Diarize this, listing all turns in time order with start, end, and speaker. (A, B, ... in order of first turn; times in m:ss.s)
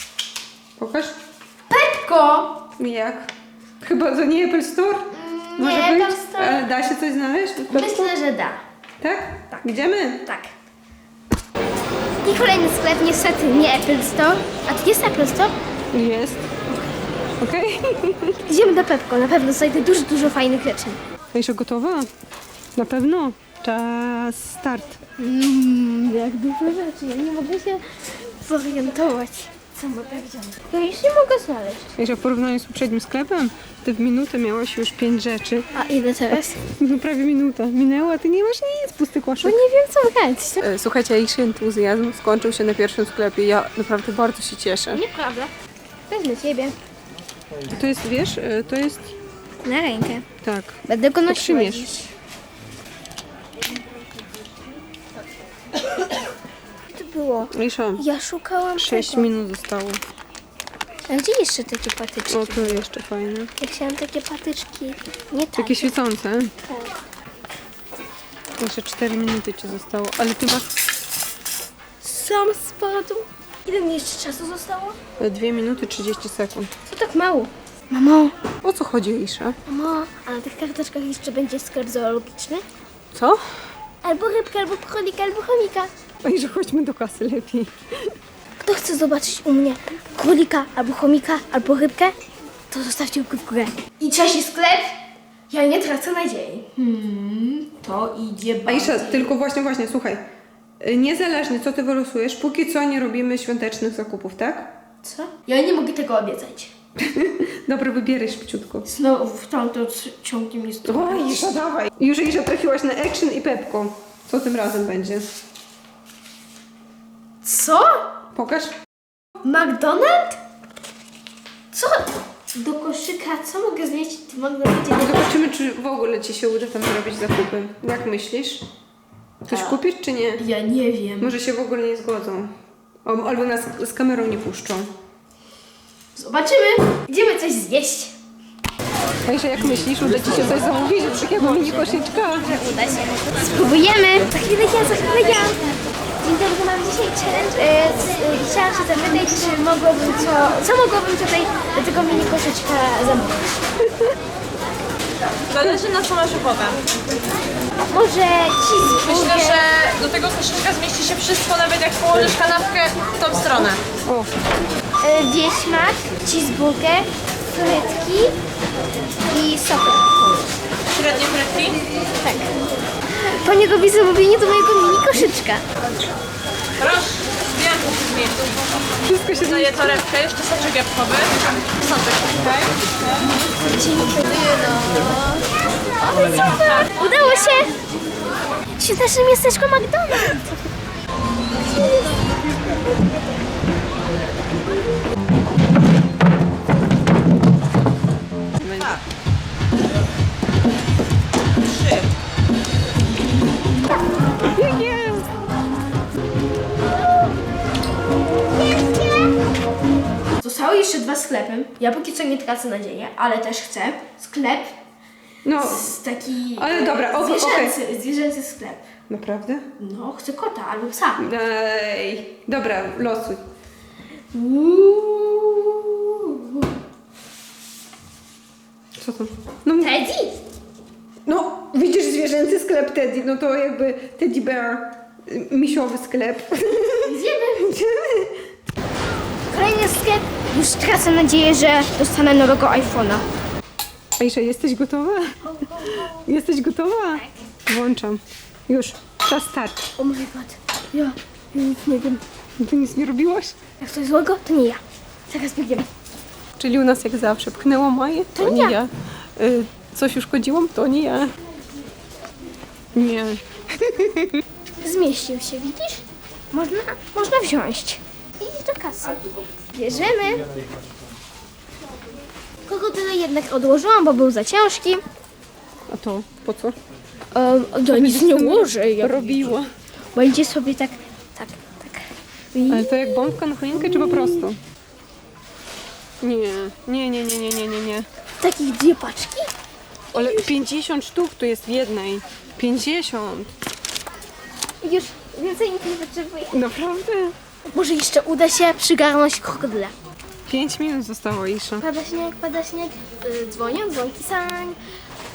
0:00.8-0:01.2 A
0:01.7-0:02.6 B
0:02.8-0:03.3 A
0:03.8-0:08.1 A
0:05.1-0:06.7 B
0:07.7-0:08.6 B
0:09.0-0:10.3 A
0:10.2-0:10.5 B
0:12.2-0:15.6 B
0:15.9-0:16.5 A
0:17.4-0:18.4 A
0:18.5-0:21.0 B
0:21.3-0:22.1 A
0:22.8-0:25.0 A
0:25.2-0:31.9 B
0:32.0-0:35.7 A
0:35.7-0:36.6 B
0:36.6-0:39.6 A
0:39.4-0:40.6 B
0:40.6-0:45.0 A
0:44.9-0:45.5 B
0:46.1-0:46.8 B
0:47.7-0:49.1 A
0:49.6-0:50.3 B
0:50.4-0:51.9 A
0:50.9-0:52.1 B
0:55.8-0:56.2 B
0:56.9-0:59.3 B
0:57.5-0:58.0 A
0:58.8-1:00.0 A
1:01.1-1:02.9 B
1:02.3-1:03.5 A
1:03.6-1:05.9 B
1:05.6-1:06.5 A
1:06.7-1:07.0 B
1:08.6-1:10.7 A
1:12.0-1:15.0 B
1:15.2-1:16.7 A
1:16.9-1:18.4 B
1:18.6-1:19.6 A
1:19.7-1:22.6 B
1:23.2-1:23.4 A
1:24.0-1:25.9 B
1:26.2-1:28.1 A
1:28.6-1:32.2 B
1:32.7-1:35.0 B
1:35.5-1:39.3 B
1:38.7-1:40.2 A
1:40.8-1:44.7 A
1:45.0-1:46.7 B
1:47.0-1:48.9 A
1:48.9-1:51.5 B
1:50.8-1:55.3 A
1:57.4-1:58.0 B
1:58.4-1:58.8 A
1:59.4-2:00.4 B
2:01.7-2:05.4 B
2:05.0-2:08.6 A
2:09.4-2:10.4 A
2:09.5-2:09.8 B
2:10.4-2:11.3 B
2:11.2-2:12.5 A
2:13.0-2:14.9 A
2:16.2-2:18.2 B
2:19.3-2:22.5 A
2:22.3-2:33.4 B
2:35.5-2:36.8 C
2:37.9-2:39.7 B
2:39.0-2:43.8 C
2:44.1-2:44.3 A
2:45.0-2:48.4 B
2:49.3-2:50.5 B
2:50.9-2:51.8 C
2:52.2-2:52.5 B
2:53.3-2:55.6 B
2:56.8-2:58.7 C
2:59.1-3:00.0 A
2:59.3-3:02.8 C
3:03.6-3:05.0 B
3:04.6-3:05.1 C
3:06.0-3:07.8 B
3:06.2-3:06.9 C
3:08.8-3:10.5 B
3:11.7-3:12.2 B
3:18.6-3:19.0 A
3:24.5-3:25.3 A
3:30.4-3:34.8 B
3:35.4-3:35.9 A
3:35.6-3:38.9 B
3:36.6-3:37.8 A
3:39.1-3:39.7 A
3:39.8-3:41.2 B
3:41.2-3:43.5 A
3:44.3-3:46.7 B
3:49.0-3:50.0 A
3:49.8-3:50.4 B
3:51.3-3:58.4 A
3:57.0-3:57.8 B
3:59.5-4:03.2 B
4:04.2-4:09.9 A
4:05.4-4:06.2 B
4:10.0-4:12.2 B
4:12.6-4:13.6 A
4:13.8-4:15.9 B
4:16.6-4:21.3 A
4:18.4-4:18.8 B
4:23.0-4:24.4 A
4:24.8-4:30.5 B
4:32.6-4:35.0 B
4:35.9-4:36.8 A
4:37.3-4:39.6 B
4:37.9-4:39.7 A
4:40.1-4:44.5 B
4:42.7-4:44.6 A
4:46.2-4:48.1 A
4:48.4-4:49.5 B
4:50.1-4:50.6 B
4:50.1-4:53.5 A
4:54.8-4:56.6 B
4:56.5-4:57.4 A
4:57.7-4:59.9 B
5:00.5-5:01.9 A
5:01.8-5:04.8 B